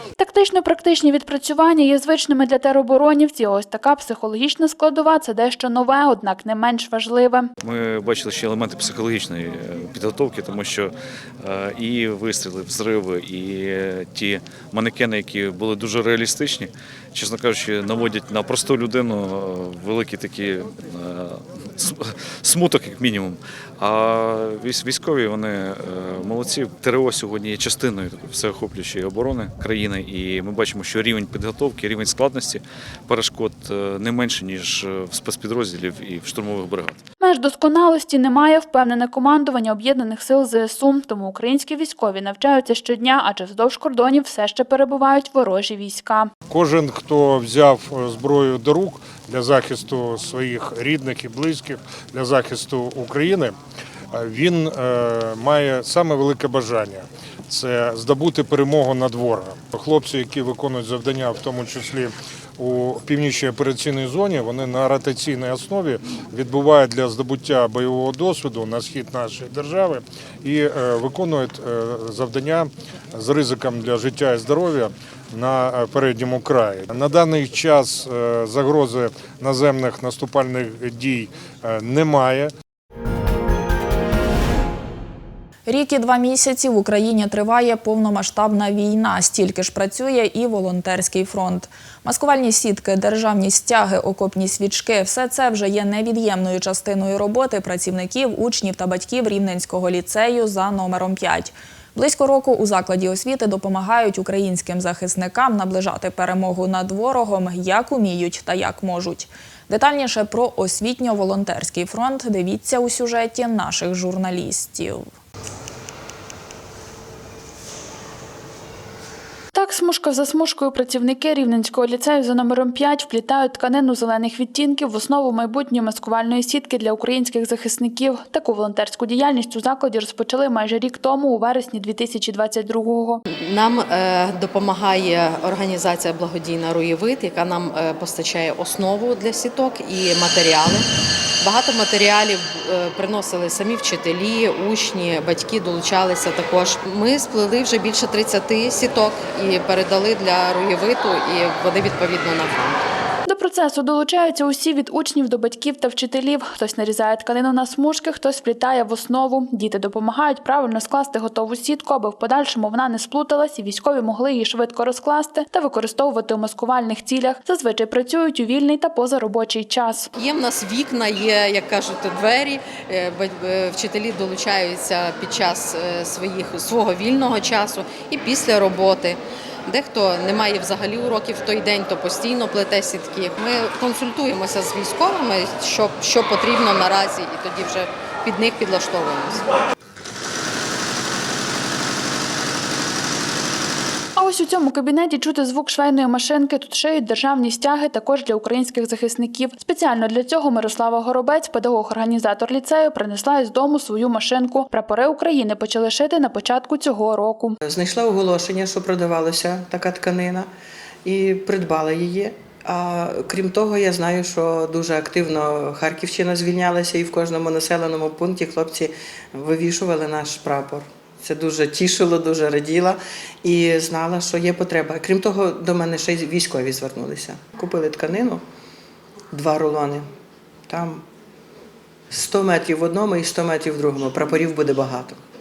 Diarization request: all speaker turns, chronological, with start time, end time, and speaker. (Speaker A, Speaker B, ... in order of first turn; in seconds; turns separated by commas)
Speaker A: 0.2-7.5, Speaker B: 7.6-37.0, Speaker A: 37.2-46.3, Speaker C: 46.5-53.6, Speaker C: 54.1-82.5, Speaker D: 85.7-115.1, Speaker A: 119.5-133.2, Speaker E: 133.4-140.9, Speaker E: 141.4-152.8, Speaker A: 153.3-170.1, Speaker E: 170.2-189.5, Speaker A: 194.2-207.6, Speaker F: 207.7-210.5, Speaker F: 211.0-228.4, Speaker F: 229.3-230.1, Speaker F: 230.7-231.1, Speaker F: 232.1-235.2